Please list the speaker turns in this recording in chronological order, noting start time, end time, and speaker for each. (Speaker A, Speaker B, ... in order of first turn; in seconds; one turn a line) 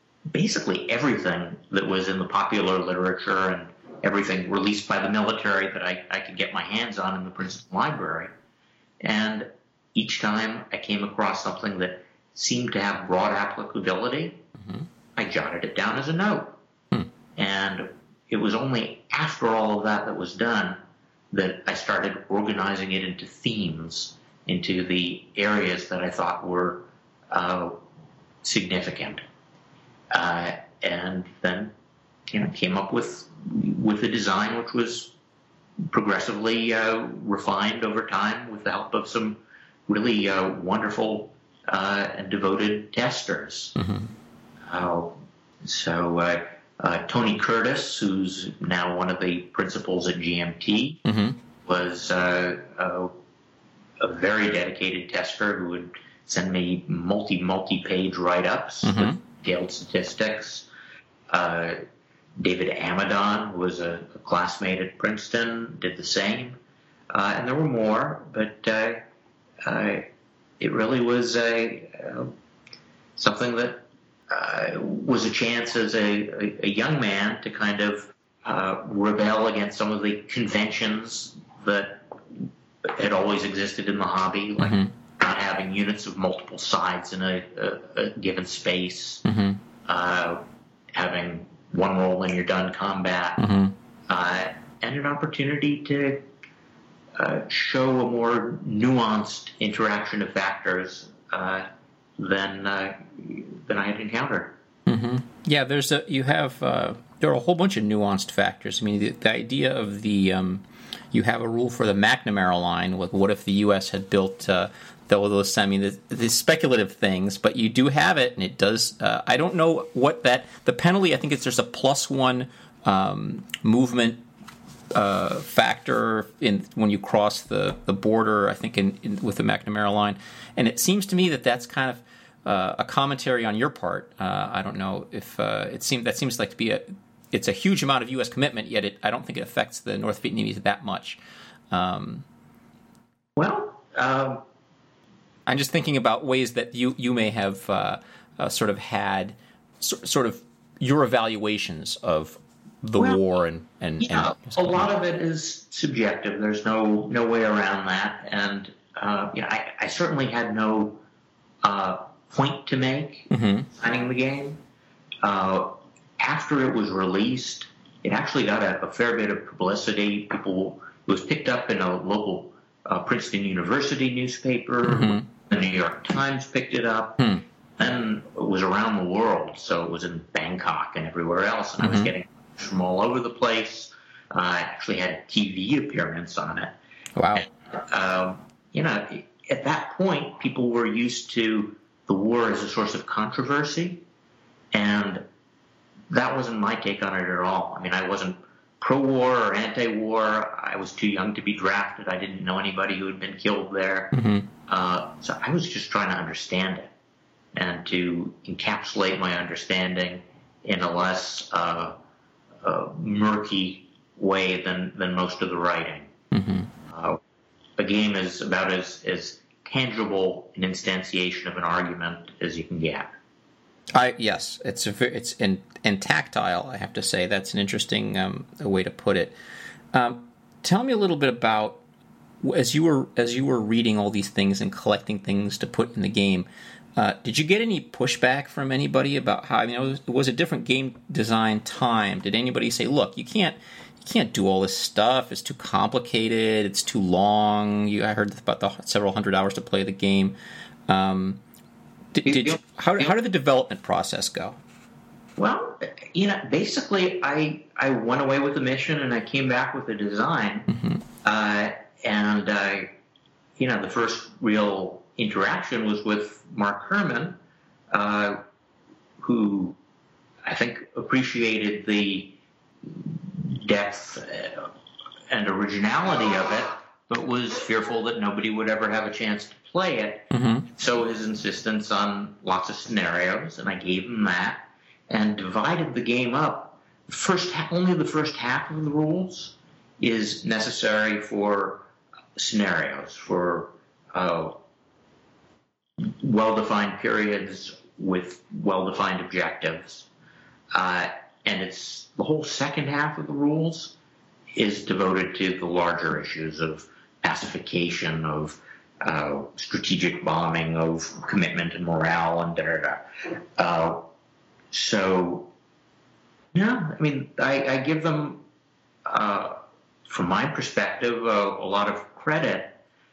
Speaker A: 0.3-8.3
Speaker A: 9.0-14.4
Speaker A: 15.2-16.6
Speaker A: 17.4-20.8
Speaker A: 21.3-27.8
Speaker A: 28.4-29.2
Speaker A: 30.1-31.7
Speaker A: 32.3-35.1
Speaker A: 35.9-43.8
Speaker B: 43.8-44.1
Speaker A: 44.7-51.0
Speaker B: 51.1-51.4
Speaker A: 51.6-53.1
Speaker A: 54.0-60.7
Speaker B: 58.8-59.2
Speaker A: 61.3-61.8
Speaker A: 62.4-66.6
Speaker A: 67.1-69.0
Speaker A: 69.7-70.1
Speaker A: 70.6-72.3
Speaker A: 73.2-89.2
Speaker B: 84.6-84.9
Speaker B: 89.2-89.6
Speaker A: 89.8-90.4
Speaker A: 91.0-93.5
Speaker B: 93.4-93.8
Speaker A: 94.1-96.2
Speaker A: 97.2-101.7
Speaker A: 102.2-104.6
Speaker B: 104.9-124.2
Speaker B: 125.0-141.2
Speaker B: 141.7-142.3
Speaker A: 143.4-144.4
Speaker B: 145.5-154.8
Speaker A: 154.0-161.0
Speaker A: 161.6-164.6
Speaker B: 163.3-163.7
Speaker A: 165.2-186.8
Speaker B: 174.9-175.3
Speaker B: 181.8-182.1
Speaker B: 187.2-187.5
Speaker A: 187.4-194.0
Speaker A: 194.7-195.2
Speaker A: 196.1-204.1
Speaker B: 204.1-204.5
Speaker A: 204.7-206.9
Speaker A: 207.6-211.9
Speaker A: 212.6-216.1
Speaker B: 216.3-216.7
Speaker A: 216.9-217.2
Speaker A: 217.8-223.1
Speaker B: 223.9-229.3
Speaker B: 229.9-231.8
Speaker B: 232.4-250.3
Speaker B: 250.9-251.4
Speaker B: 252.1-254.6
Speaker A: 252.3-253.1
Speaker A: 255.4-260.7
Speaker B: 260.7-261.0
Speaker A: 261.2-262.9
Speaker A: 263.6-267.4
Speaker A: 267.9-268.4
Speaker A: 269.2-269.8
Speaker A: 270.4-274.7
Speaker A: 275.3-294.6
Speaker B: 280.3-280.7
Speaker A: 296.0-300.1
Speaker A: 300.7-303.9
Speaker A: 304.5-314.1
Speaker A: 314.7-315.5
Speaker A: 316.5-318.4
Speaker A: 319.1-322.8